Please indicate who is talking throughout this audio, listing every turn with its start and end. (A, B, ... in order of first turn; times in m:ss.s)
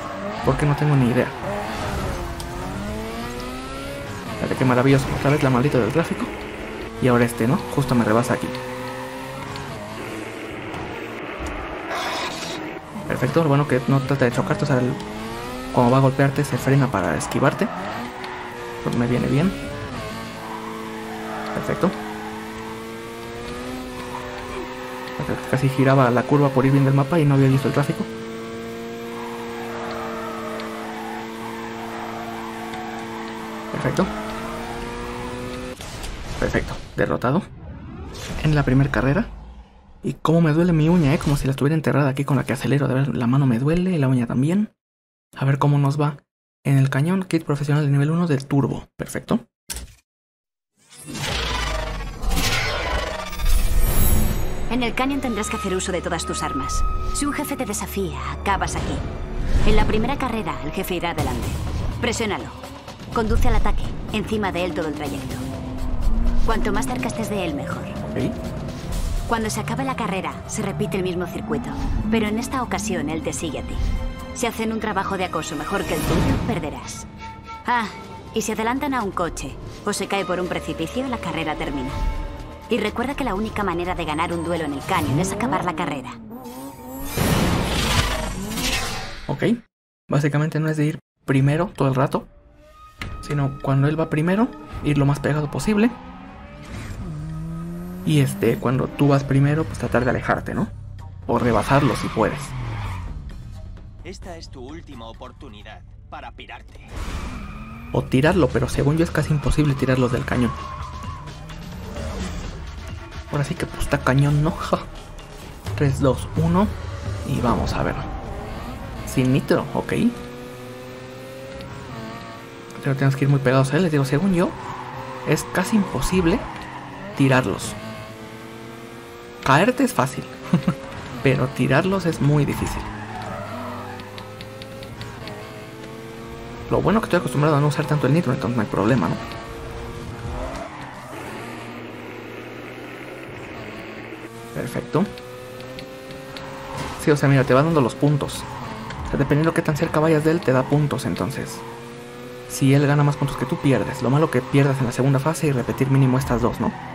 0:00.4-0:01.4 A
0:04.4-0:06.3 A
0:07.0-0:08.6 A
0:13.1-0:15.0 A
0:15.7-0:17.7 A
0:18.8-0:19.6 A
0:21.5-0:22.0 A
0:25.2-0:28.1 A
0:33.7-0:34.1 A
0:36.4-0:37.5 A
0:38.4-0:39.3 A
0:40.0-0:44.7 A
0:45.4-0:49.4 A
0:54.7-0:59.0 B
0:59.6-1:05.4 B
1:06.4-1:08.0 B
1:08.0-1:08.4 A
1:09.3-1:13.8 B
1:14.4-1:17.1 B
1:17.6-1:22.0 B
1:22.7-1:26.2 B
1:29.3-1:32.3 A
1:33.2-1:36.0 A
1:38.0-1:40.7 A
1:41.3-1:42.6 A
1:44.0-1:46.9 C
1:47.9-1:50.6 A
1:53.3-1:54.9 A
1:55.8-1:58.1 A
1:59.1-2:00.2 A
2:02.8-2:04.6 A
2:05.3-2:06.5 A
2:07.2-2:07.8 A
2:09.4-2:10.7 A
2:11.2-2:12.9 A
2:16.7-2:19.2 A
2:24.5-2:25.1 A
2:27.0-2:28.5 A
2:29.1-2:31.7 A
2:32.5-2:36.8 A